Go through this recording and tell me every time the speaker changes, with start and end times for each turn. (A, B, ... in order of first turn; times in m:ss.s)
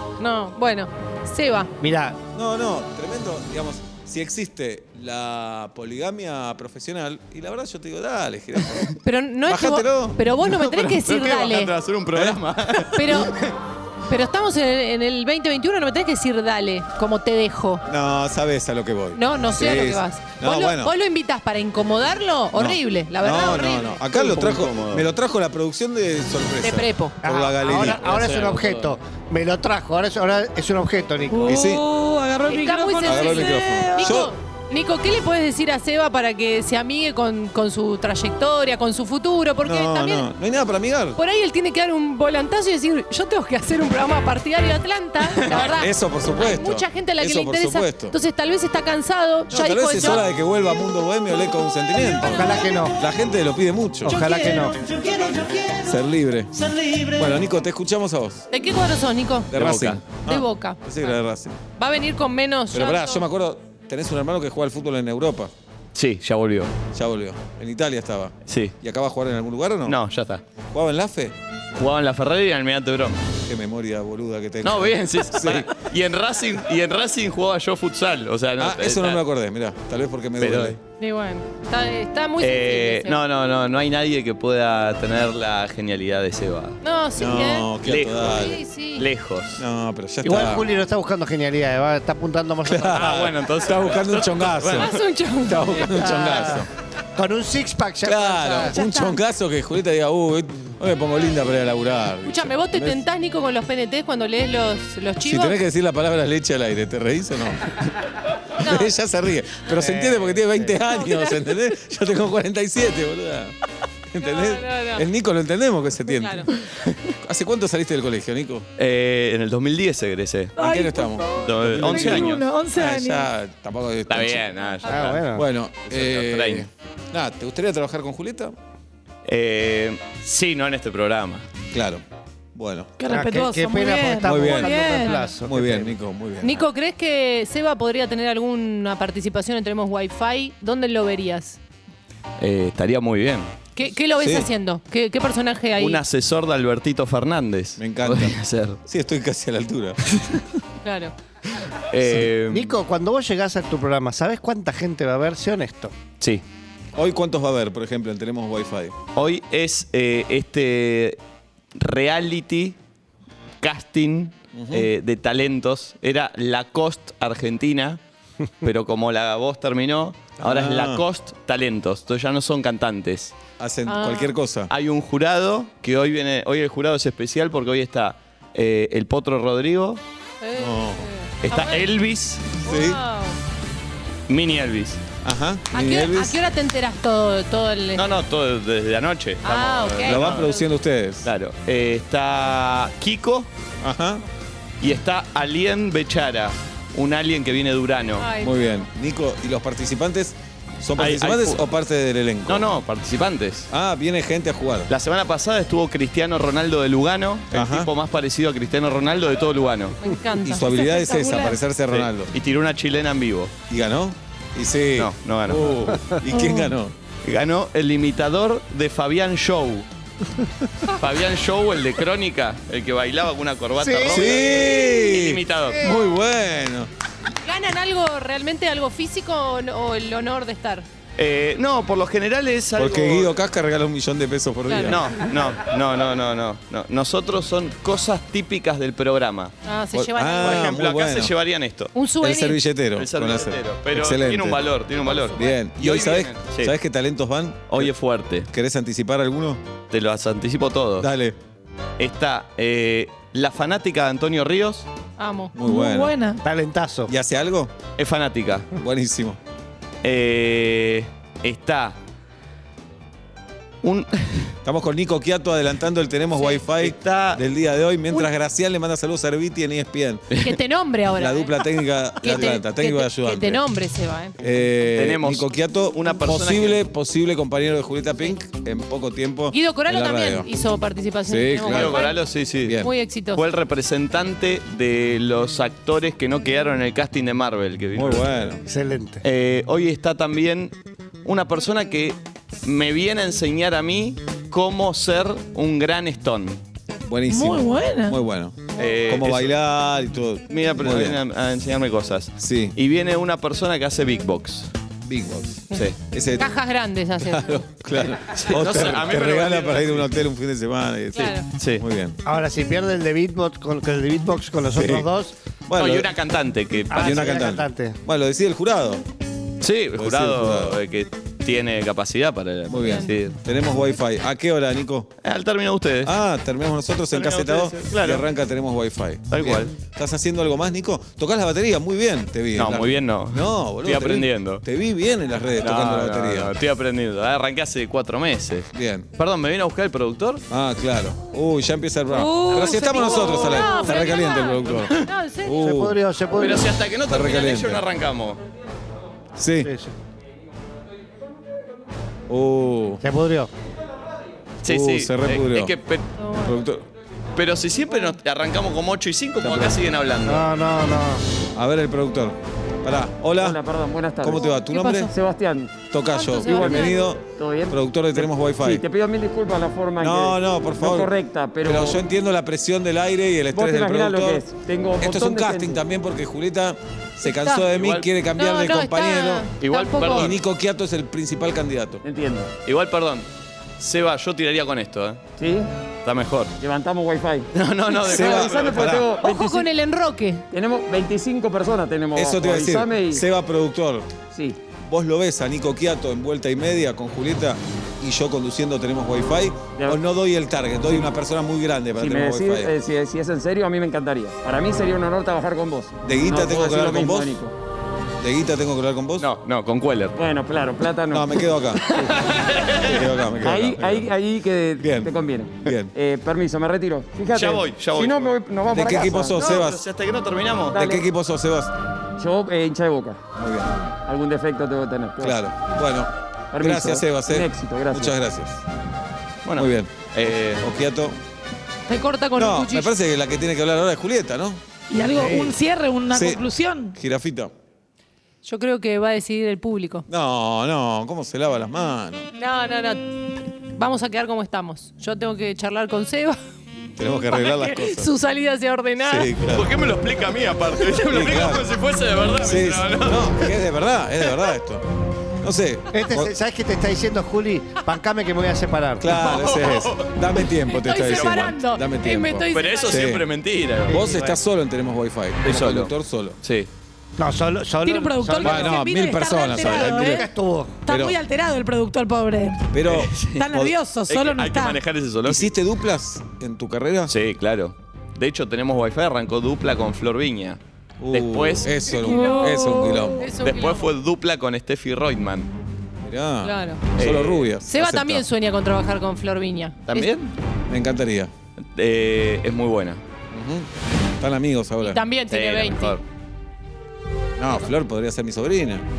0:00.2-0:01.7 A
0:01.8-0:02.2 B
0:02.3-0:08.9 C
0:09.0-0:11.7 A
0:09.4-0:10.2 C
0:10.4-0:13.5 D
0:12.1-0:12.4 C
0:12.9-0:13.3 A
0:14.1-0:17.8 A
0:17.9-0:20.9 C
0:19.1-0:24.0 A
0:22.5-0:28.2 C
0:24.1-0:25.1 D
0:26.6-0:27.2 A
0:27.2-0:31.6 B
0:27.6-0:29.0 D
0:31.3-0:34.2 E
0:31.4-0:31.9 C
0:32.5-0:40.3 A
0:33.0-0:34.3 C
0:39.6-0:41.2 C
0:41.1-0:50.2 A
0:45.3-0:45.7 D
0:45.6-0:48.2 C
0:49.5-0:54.2 C
0:52.2-0:53.0 B
0:54.0-0:54.8 B
0:55.7-0:58.4 C
0:58.5-0:59.5 A
0:59.5-1:01.6 C
0:59.5-1:00.0 D
1:00.2-1:01.1 A
1:01.8-1:03.2 A
1:02.7-1:05.5 C
1:05.9-1:06.7 D
1:06.9-1:10.0 C
1:08.5-1:08.8 D
1:09.8-1:10.4 D
1:10.7-1:11.4 C
1:11.8-1:13.2 D
1:13.4-1:15.7 C
1:14.6-1:19.2 D
1:18.6-1:20.8 C
1:20.4-1:20.8 D
1:21.0-1:23.2 A
1:22.4-1:26.8 D
1:26.8-1:27.7 A
1:27.2-1:28.6 C
1:27.8-1:28.4 D
1:28.3-1:29.1 A
1:28.9-1:29.6 D
1:29.6-1:30.6 C
1:30.2-1:33.3 B
1:32.7-1:36.7 C
1:32.9-1:34.9 D
1:34.7-1:36.4 A
1:36.0-1:38.8 B
1:38.0-1:43.0 C
1:38.7-1:39.2 A
1:42.2-1:45.6 A
1:45.2-1:47.6 C
1:48.6-1:48.9 A
1:48.6-1:53.5 C
1:49.7-1:50.8 B
1:50.9-1:51.4 A
1:54.1-1:56.5 C
1:54.2-1:55.0 A
1:56.1-1:56.5 A
1:57.2-1:58.6 C
1:58.8-2:00.5 D
2:00.6-2:04.4 C
2:00.6-2:03.3 E
2:01.4-2:02.5 D
2:04.1-2:05.2 D
2:04.8-2:05.5 B
2:05.3-2:08.5 C
2:05.9-2:06.7 D
2:09.2-2:11.5 D
2:11.7-2:12.0 C
2:12.5-2:12.9 C
2:13.0-2:15.2 E
2:13.1-2:16.0 B
2:14.2-2:14.8 C
2:14.8-2:15.3 A
2:15.4-2:16.6 C
2:16.4-2:21.6 A
2:22.4-2:23.5 D
2:23.7-2:26.0 A
2:24.2-2:24.5 C
2:25.8-2:28.8 D
2:27.8-2:30.0 C
2:30.8-2:31.1 A
2:31.9-2:32.7 D
2:32.4-2:35.9 B
2:36.9-2:38.9 C
2:39.1-2:41.2 D
2:41.7-2:42.8 D
2:43.6-2:48.0 D
2:44.5-2:44.9 C
2:48.6-2:53.4 D
2:50.4-2:51.0 C
2:53.6-2:54.7 C
2:53.8-2:54.4 A
2:54.7-3:00.0 D
3:00.4-3:01.9 A
3:00.6-3:01.1 C
3:01.4-3:02.5 D
3:02.6-3:03.0 C
3:02.6-3:03.4 A
3:04.3-3:05.0 D
3:05.2-3:06.4 C
3:05.7-3:08.1 A
3:07.9-3:10.5 D
3:09.4-3:10.6 A
3:10.0-3:11.3 C
3:11.2-3:13.5 D
3:13.8-3:14.2 C
3:14.8-3:18.3 D
3:18.2-3:18.8 A
3:18.4-3:22.7 C
3:21.0-3:21.7 D
3:22.4-3:23.7 D
3:23.7-3:24.9 C
3:24.9-3:30.0 D
3:27.5-3:27.9 C
3:30.0-3:30.7 A
3:30.3-3:32.3 C
3:30.6-3:31.6 E
3:31.9-3:33.5 D
3:33.7-3:36.9 C
3:34.9-3:35.7 D
3:35.9-3:36.3 B
3:36.3-3:36.8 E
3:37.2-3:39.9 D
3:40.9-3:45.8 D
3:43.8-3:44.6 B
3:44.1-3:46.9 C
3:45.7-3:46.1 B
3:47.4-3:50.9 A
3:51.2-3:53.3 D
3:52.8-3:55.1 C
3:54.6-3:55.0 A
3:54.8-3:59.5 D
3:59.6-4:00.8 A
3:59.9-4:01.3 C
4:00.4-4:01.9 D
4:01.9-4:02.6 A
4:02.2-4:04.6 C
4:02.9-4:06.7 D
4:05.0-4:05.5 A
4:05.3-4:07.9 C
4:07.7-4:08.5 D
4:08.5-4:09.6 C
4:09.9-4:11.1 D
4:11.0-4:11.4 C
4:12.0-4:14.9 D
4:15.2-4:15.5 A
4:15.5-4:16.2 C
4:15.6-4:16.4 E
4:16.4-4:17.1 B
4:17.1-4:17.7 C
4:18.0-4:18.7 D
4:18.7-4:19.4 C
4:20.0-4:22.0 D
4:23.8-4:24.6 D
4:24.6-4:30.4 C
4:26.5-4:27.4 D
4:30.3-4:30.6 D
4:30.4-4:31.6 A
4:31.2-4:33.6 C
4:32.2-4:34.4 A
4:32.3-4:32.6 D
4:34.4-4:40.5 C
4:34.9-4:36.8 D
4:39.5-4:42.2 A
4:41.2-4:42.0 C
4:41.7-4:48.2 D
4:42.6-4:42.9 C
4:42.8-4:43.4 A
4:47.9-4:48.6 C
4:48.6-4:49.2 B
4:49.2-4:50.7 D
4:51.2-4:56.6 D
4:57.0-5:01.2 C
4:57.3-4:58.2 E
4:58.7-4:59.6 D
5:00.5-5:04.7 D
5:02.4-5:02.8 C
5:05.0-5:06.5 C
5:05.7-5:07.6 A
5:07.2-5:12.2 C
5:08.0-5:10.1 D
5:11.1-5:11.4 A
5:11.1-5:11.8 D
5:12.2-5:15.3 B
5:14.7-5:15.1 C
5:15.7-5:16.1 C
5:15.8-5:17.3 D
5:16.9-5:18.0 B
5:16.9-5:19.0 C
5:19.6-5:23.4 D
5:20.0-5:20.8 C
5:22.7-5:25.1 C
5:22.8-5:23.1 A
5:25.2-5:26.2 D
5:26.0-5:36.5 C
5:27.1-5:28.3 D
5:29.3-5:29.7 D
5:32.5-5:34.6 D
5:35.6-5:40.4 D
5:38.7-5:39.1 C
5:40.5-5:46.0 C
5:42.1-5:45.8 A
5:42.2-5:44.0 D
5:45.6-5:46.7 B
5:46.3-5:48.4 D
5:47.0-5:47.8 C
5:49.4-5:49.7 C
5:49.6-5:49.9 B
5:52.3-5:53.0 C
5:53.0-5:53.5 B
5:54.6-5:56.1 D
5:54.6-5:55.7 C
5:56.2-5:56.6 A
5:56.4-5:56.9 C
5:57.4-6:00.5 D
5:59.4-5:59.8 C
6:00.2-6:01.2 B
6:01.5-6:03.6 C
6:03.4-6:12.0 F
6:04.2-6:05.1 C
6:05.9-6:08.8 C
6:06.1-6:07.1 A
6:10.0-6:14.4 C
6:13.5-6:15.8 F
6:15.0-6:19.5 C
6:17.2-6:17.6 A
6:17.7-6:18.1 D
6:18.4-6:20.3 A
6:19.6-6:20.4 D
6:20.1-6:22.0 C
6:22.0-6:22.5 F
6:22.6-6:23.3 D
6:23.8-6:25.2 D
6:25.4-6:25.7 F
6:26.0-6:26.5 D
6:26.6-6:27.5 F
6:27.5-6:29.0 D
6:28.0-6:29.0 C
6:28.1-6:29.7 F
6:29.2-6:30.4 A
6:30.5-6:33.2 F
6:32.1-6:34.1 C
6:34.3-6:34.6 F
6:34.8-6:42.7 C
6:39.8-6:40.0 F
6:42.0-6:47.5 F
6:46.0-6:47.4 C
6:48.2-6:49.3 C
6:49.2-6:50.2 D
6:50.1-6:52.8 F
6:51.1-6:51.8 C
6:51.8-6:53.2 D
6:52.8-6:54.1 C
6:53.4-6:59.5 F
6:54.8-6:55.9 C
6:57.3-6:58.4 D
6:58.7-6:59.8 C
6:59.3-7:00.8 D
7:00.7-7:01.1 F
7:00.8-7:01.7 C
7:02.2-7:03.2 F
7:03.4-7:03.7 C
7:04.0-7:05.5 F
7:05.2-7:08.6 C
7:06.5-7:08.2 F
7:09.4-7:10.6 D
7:09.5-7:11.2 C
7:11.9-7:12.9 A
7:12.4-7:14.6 C
7:14.9-7:17.0 E
7:15.1-7:15.6 B
7:16.1-7:17.5 C
7:18.4-7:20.0 A
7:20.1-7:22.3 C
7:22.4-7:23.1 A
7:23.7-7:26.4 A
7:27.0-7:28.1 C
7:27.3-7:29.3 A
7:29.0-7:29.7 C
7:29.5-7:33.6 D
7:31.1-7:31.7 C
7:32.4-7:34.8 C
7:34.2-7:34.5 D
7:35.4-7:36.3 C
7:35.9-7:39.2 B
7:39.0-7:43.2 C
7:39.2-7:41.6 D
7:40.8-7:41.8 E
7:40.9-7:43.1 A
7:42.5-7:44.0 D
7:43.9-7:44.4 B
7:43.9-7:46.4 C
7:45.4-7:46.7 D
7:47.2-7:48.8 B
7:47.8-7:50.3 E
7:48.4-7:50.3 C
7:49.4-7:50.8 B
7:50.8-7:52.7 E
7:50.8-7:51.2 C
7:52.7-7:53.8 C
7:52.8-7:53.4 D
7:53.2-7:54.8 E
7:54.1-7:55.6 D
7:55.2-7:57.1 C
7:57.1-8:00.6 D
8:01.0-8:03.3 C
8:01.1-8:01.9 D
8:01.9-8:03.3 E
8:02.1-8:03.9 A
8:03.4-8:05.5 D
8:06.0-8:08.2 C
8:06.4-8:06.8 A
8:06.9-8:07.5 D
8:07.6-8:10.1 A
8:09.9-8:10.3 D
8:10.7-8:11.3 C
8:11.7-8:13.0 D
8:13.3-8:13.7 C
8:14.2-8:15.0 C
8:14.8-8:16.0 A
8:15.3-8:16.0 D
8:17.4-8:18.8 C